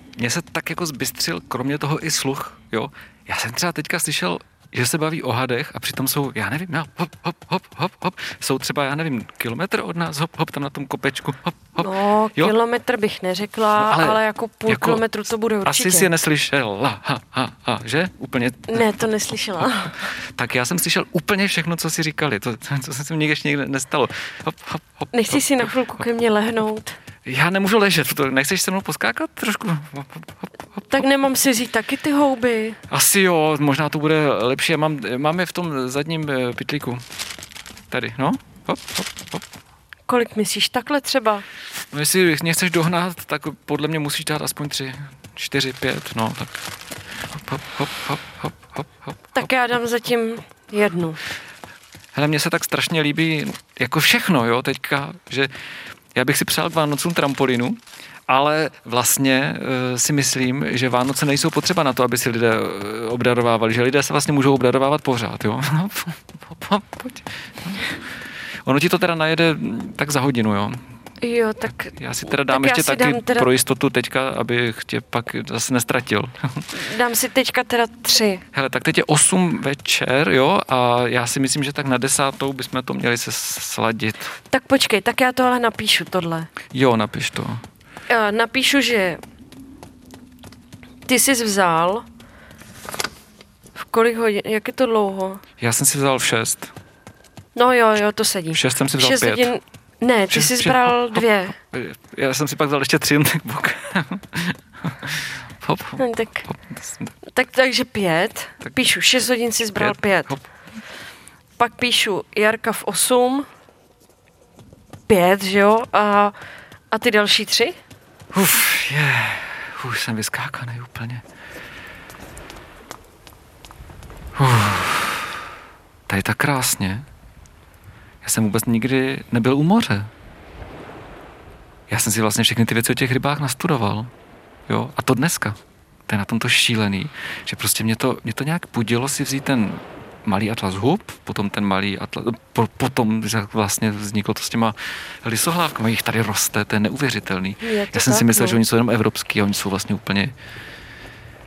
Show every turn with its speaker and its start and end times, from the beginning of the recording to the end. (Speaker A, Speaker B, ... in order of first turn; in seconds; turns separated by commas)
Speaker A: 0.2-12.5, Speaker B: 11.8-16.1, Speaker A: 13.8-15.0, Speaker A: 15.6-19.1, Speaker B: 18.7-20.1, Speaker A: 19.6-25.7, Speaker B: 25.1-27.0, Speaker A: 27.2-31.0, Speaker B: 30.9-32.8, Speaker A: 32.9-37.0, Speaker A: 37.9-39.4, Speaker B: 40.1-41.4, Speaker A: 41.9-46.5, Speaker A: 47.3-49.5, Speaker B: 49.3-51.2, Speaker A: 52.1-55.5, Speaker A: 56.1-68.0, Speaker A: 68.6-70.8, Speaker B: 71.2-73.5, Speaker A: 71.9-76.7, Speaker B: 76.7-78.4, Speaker A: 78.5-84.3, Speaker B: 84.5-86.5, Speaker A: 86.7-87.6, Speaker B: 88.1-89.2, Speaker B: 91.0-92.0, Speaker B: 93.8-95.4, Speaker A: 95.6-96.7, Speaker B: 97.5-101.5, Speaker A: 98.5-99.5, Speaker A: 100.3-107.1, Speaker B: 106.0-106.5, Speaker B: 107.3-110.3, Speaker A: 109.8-110.4, Speaker B: 111.6-113.5, Speaker B: 115.1-116.3, Speaker B: 116.9-117.8, Speaker A: 118.3-121.2, Speaker A: 124.3-125.4, Speaker A: 126.1-127.0, Speaker A: 128.2-130.1, Speaker A: 131.9-134.1, Speaker A: 134.7-150.3, Speaker B: 147.6-148.6